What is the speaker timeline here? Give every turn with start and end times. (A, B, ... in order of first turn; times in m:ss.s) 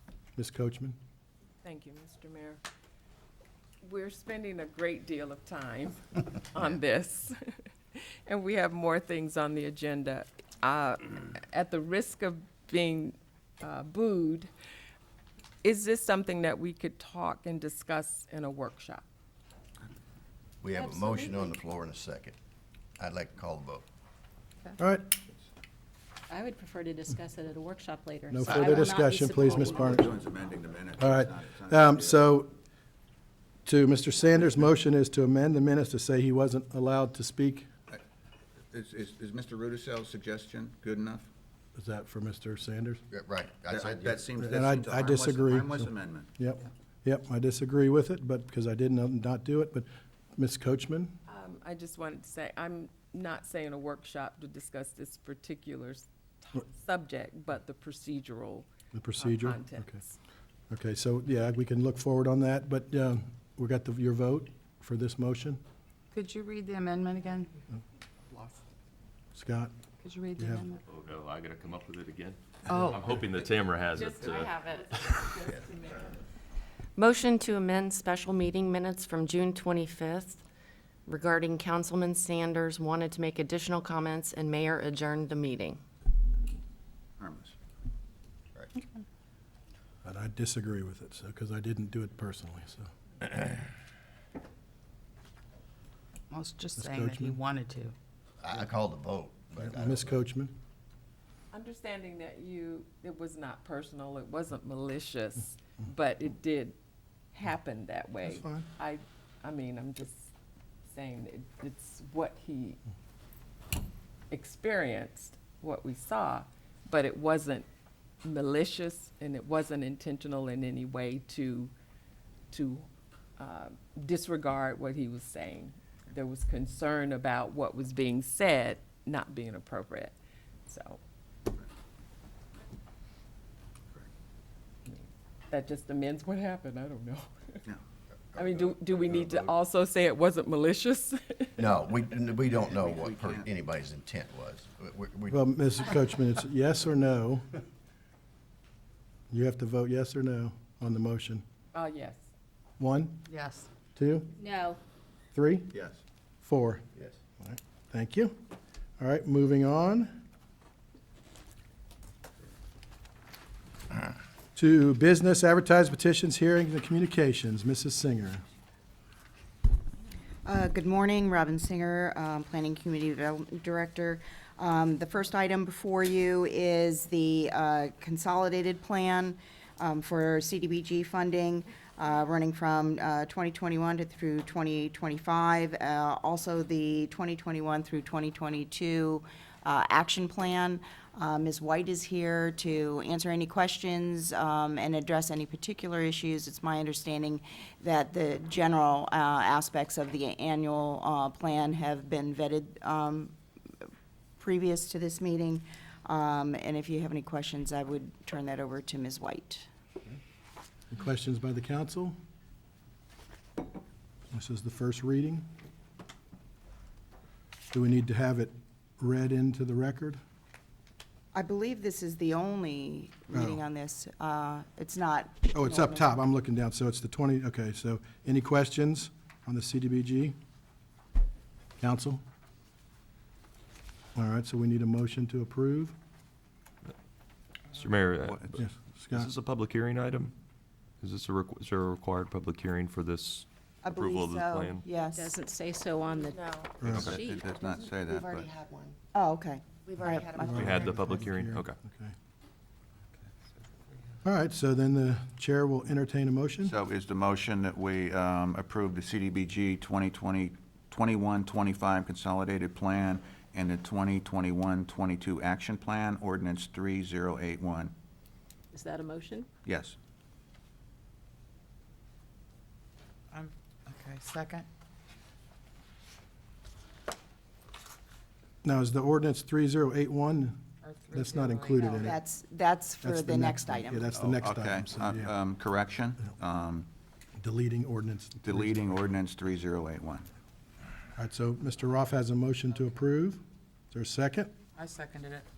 0:00.4-0:01.0 A
0:01.6-0:02.6 B
0:03.8-0:14.5 B
0:15.6-0:19.1 B
0:20.6-0:22.4 C
0:20.8-0:21.5 D
0:23.0-0:23.9 C
0:24.8-0:25.1 A
0:26.3-0:30.1 D
0:28.3-0:30.1 A
0:28.5-0:28.8 E
0:29.4-0:32.2 E
0:31.0-0:32.5 A
0:33.7-0:37.7 A
0:38.7-0:41.3 E
0:41.8-0:43.0 A
0:43.1-0:44.3 C
0:43.7-0:46.3 E
0:44.4-0:51.2 A
0:51.3-1:00.2 B
0:58.9-0:59.9 A
1:00.7-1:05.6 A
1:06.1-1:07.5 F
1:09.4-1:09.7 A
1:10.0-1:10.8 F
1:10.4-1:10.7 A
1:10.9-1:15.3 G
1:14.0-1:16.0 B
1:14.3-1:14.8 H
1:17.0-1:20.4 H
1:21.1-1:25.8 H
1:27.2-1:27.5 E
1:30.0-1:32.9 A
1:36.3-1:38.0 F
1:36.8-1:37.4 A
1:38.4-1:40.2 C
1:39.6-1:40.5 A
1:41.5-1:46.8 B
1:47.3-1:50.3 B
1:48.2-1:48.7 A
1:50.9-1:52.8 B
1:54.3-1:57.7 B
1:58.2-2:01.7 B
2:02.5-2:02.9 B
2:03.4-2:10.1 B
2:10.7-2:11.0 B
2:14.9-2:17.3 B
2:18.3-2:19.5 C
2:18.4-2:21.6 B
2:21.6-2:25.5 C
2:22.5-2:23.5 E
2:25.3-2:27.5 A
2:29.3-2:31.4 A
2:31.7-2:32.3 B
2:32.8-2:33.2 A
2:33.3-2:33.7 F
2:34.0-2:34.3 A
2:34.4-2:34.8 D
2:35.3-2:35.7 A
2:35.7-2:36.0 E
2:36.4-2:36.8 A
2:37.4-2:38.4 A
2:39.0-2:40.2 A
2:44.6-2:48.4 A
2:50.4-3:23.3 I
3:24.4-3:29.7 I
3:30.9-3:32.2 A
3:34.3-3:35.5 A
3:37.7-3:40.2 A
3:41.3-3:46.2 I
3:43.3-3:43.6 A
3:45.5-3:50.4 A
3:51.8-3:52.2 A
3:54.2-3:56.0 A
3:57.7-4:00.3 G
3:58.6-3:59.3 A
4:01.0-4:04.9 G
4:03.8-4:05.4 I
4:05.1-4:07.5 D
4:06.8-4:07.2 A
4:06.8-4:08.5 E
4:09.1-4:10.6 I
4:10.0-4:10.2 H
4:10.4-4:12.1 A
4:10.5-4:11.8 G
4:14.2-4:16.7 A
4:16.6-4:27.9 E
4:28.7-4:29.5 D
4:29.7-4:30.0 E
4:33.3-4:34.7 F
4:38.6-4:40.6 A
4:40.8-4:41.8 F
4:41.1-4:42.2 A
4:42.0-4:44.1 I
4:43.0-4:45.4 A
4:44.1-4:46.9 E
4:47.4-4:49.0 A
4:48.4-4:50.3 E
4:51.2-4:53.4 A
4:53.9-4:54.6 A
4:54.8-4:55.5 F